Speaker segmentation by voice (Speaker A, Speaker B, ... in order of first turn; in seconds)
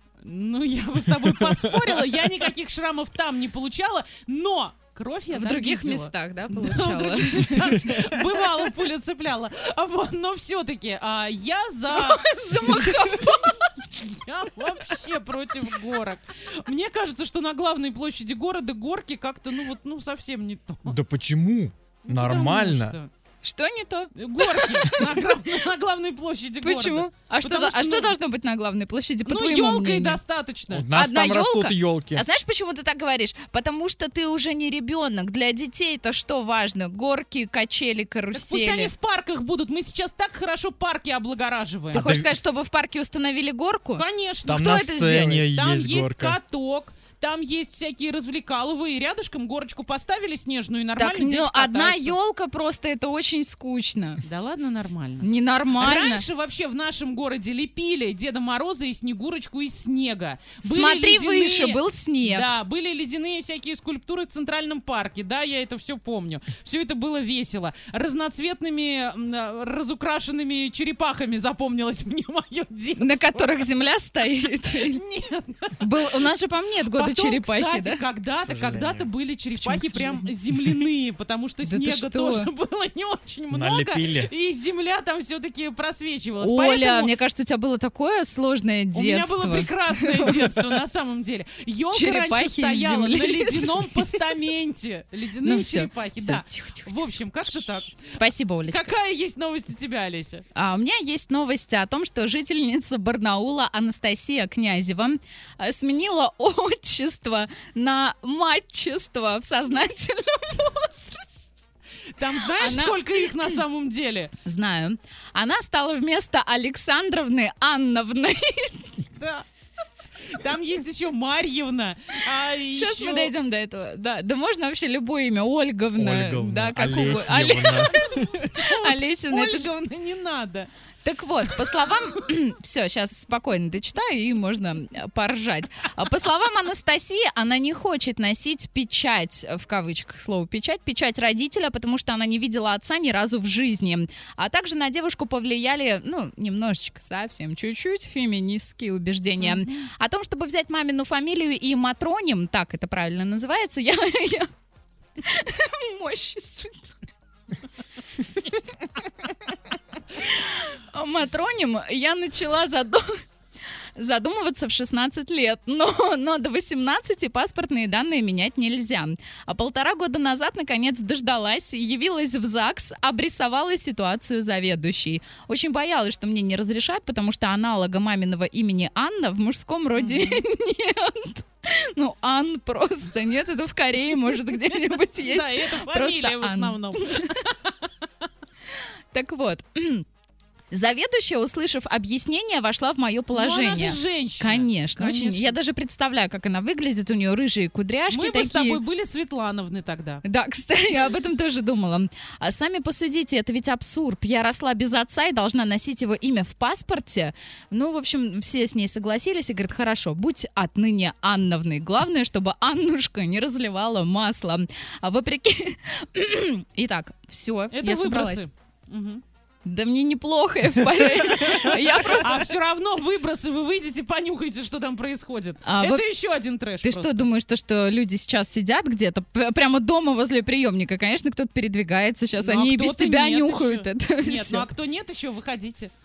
Speaker A: 0.2-21.0, 22.1-23.1, 24.1-28.1, 29.2-30.9, 38.3-42.0, 44.0-44.7, 45.5-52.2, 54.2-73.7, 74.7-76.2, 76.9-87.1, 88.9-98.0, 98.7-100.4, 112.2-114.3, 119.2-119.5, 120.3-123.3, 128.4-130.7, 149.4-149.7, 179.9-180.4, 185.2-187.7, 193.3-195.6, 198.1-200.2, 217.7-219.2, 221.6-227.3, 232.4-235.9
Speaker B: 1.2-2.4, 20.9-23.0, 30.7-32.2, 41.9-42.3, 44.5-46.4, 78.4-79.1, 83.5-84.3, 126.0-128.4
Speaker C: 5.3-8.6, 11.9-13.7, 23.4-25.3, 26.6-30.2, 30.9-38.9, 41.9-45.5, 51.0-54.2, 55.2-56.3, 60.6-62.5, 73.0-75.0, 75.8-78.0, 79.6-80.3, 81.6-82.5, 86.4-90.4, 91.9-94.3, 95.4-97.0, 97.9-98.9, 100.5-111.3, 112.6-113.6, 114.5-119.0, 122.7-129.7, 131.0-154.5, 155.2-156.9, 160.2-163.2, 164.0-187.4, 189.1-190.1, 190.7-198.8, 200.2-218.4, 219.7-222.6, 225.7-226.1, 226.8-234.7